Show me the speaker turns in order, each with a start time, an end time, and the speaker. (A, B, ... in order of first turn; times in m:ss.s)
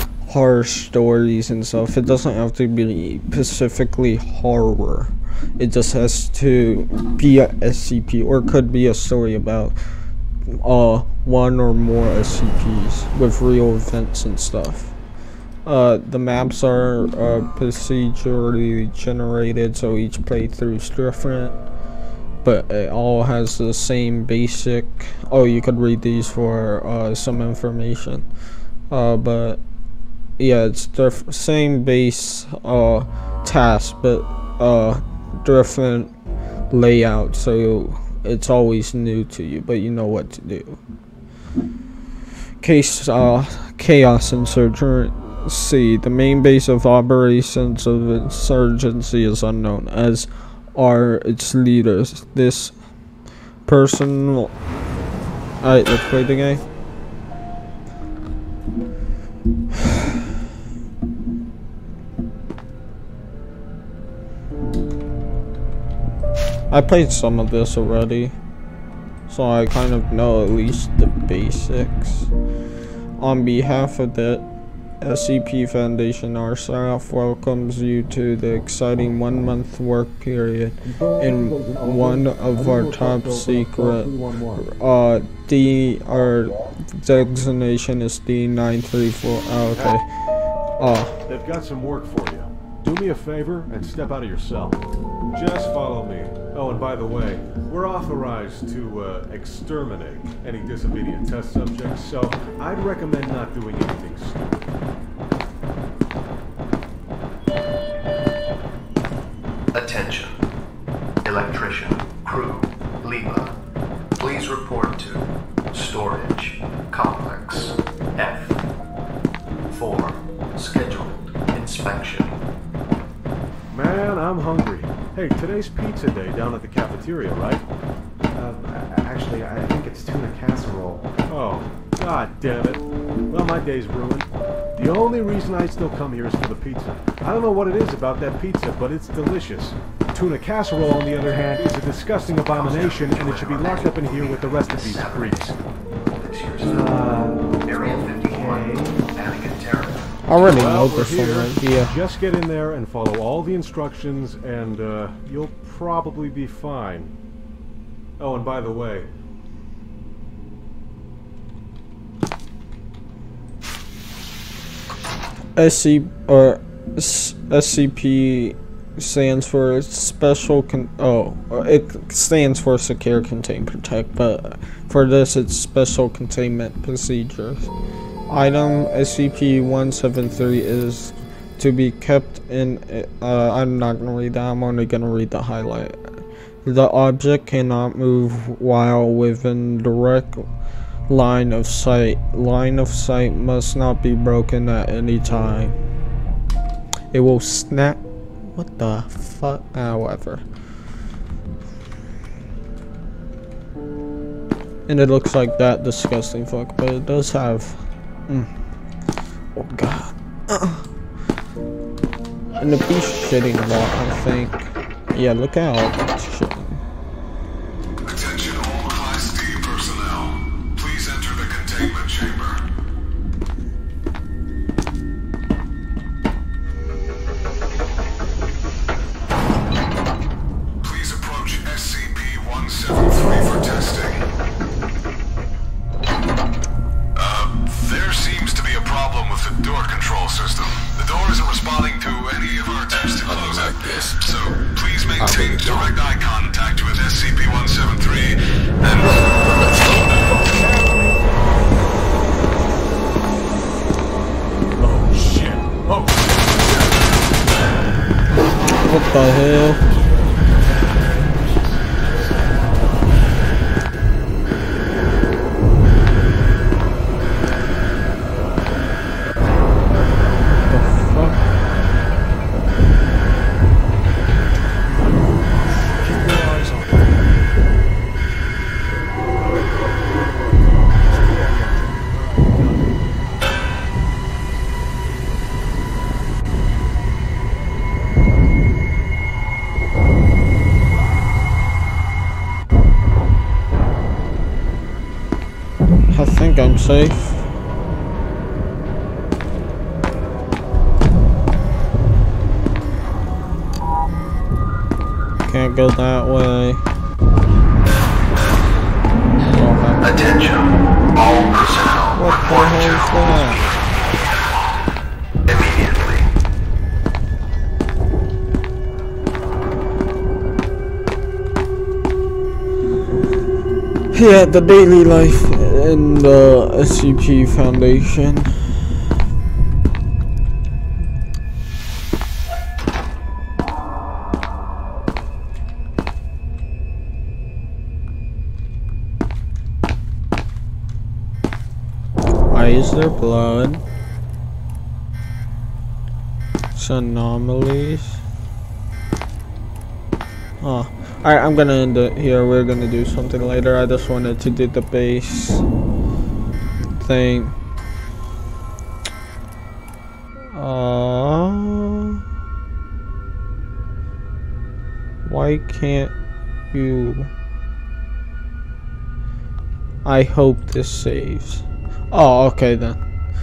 0:00.2-0:09.8 A
0:10.5-0:14.9 A
0:15.6-0:21.6 A
0:22.4-0:28.2 A
0:28.9-0:29.6 A
0:30.4-0:36.1 A
0:36.7-0:40.8 A
0:42.6-0:52.8 A
0:53.6-0:54.5 A
0:55.6-0:56.6 A
1:06.7-1:08.3 A
1:09.3-1:12.3 A
1:13.2-1:14.4 A
1:15.0-1:30.0 A
1:22.9-1:24.6 B
1:30.8-1:31.1 A
1:31.3-1:34.8 B
1:35.3-1:44.7 B
1:49.7-1:50.4 C
1:51.2-1:53.6 C
1:54.2-1:58.6 C
1:59.7-2:02.3 C
2:03.7-2:07.6 B
2:08.4-2:11.1 D
2:08.4-2:09.8 B
2:10.5-2:25.5 B
2:22.4-2:25.6 C
2:26.1-2:30.2 C
2:26.7-2:27.2 D
2:26.7-2:27.4 B
2:27.8-2:28.5 D
2:28.2-2:28.8 B
2:30.3-2:31.9 A
2:30.4-2:37.1 B
2:38.2-2:39.1 B
2:45.6-2:57.7 A
2:58.3-3:10.4 A
3:11.1-3:15.8 A
3:17.1-3:20.4 A
3:24.9-3:28.5 A
3:29.5-3:30.9 A
3:32.6-3:36.8 A
3:38.0-3:42.6 E
3:50.8-3:54.2 E
3:57.2-4:09.3 E
4:09.9-4:10.3 E
4:10.4-4:11.1 B
4:14.8-4:16.2 B
4:18.8-4:19.8 A
4:30.6-4:31.5 A
4:35.6-4:37.0 B
4:41.2-4:42.8 B
4:56.1-4:57.5 A
5:05.4-5:06.8 A
5:09.5-5:10.3 A
5:10.0-5:13.3 C
5:12.1-5:13.6 A
5:15.5-5:16.3 C
5:24.1-5:28.5 A
5:42.5-5:43.8 A
5:46.7-5:48.2 A
5:50.6-5:55.6 A
5:56.9-5:57.6 A
6:00.5-6:02.2 A
6:05.2-6:06.1 A
6:06.7-6:07.3 A
6:10.0-6:13.0 A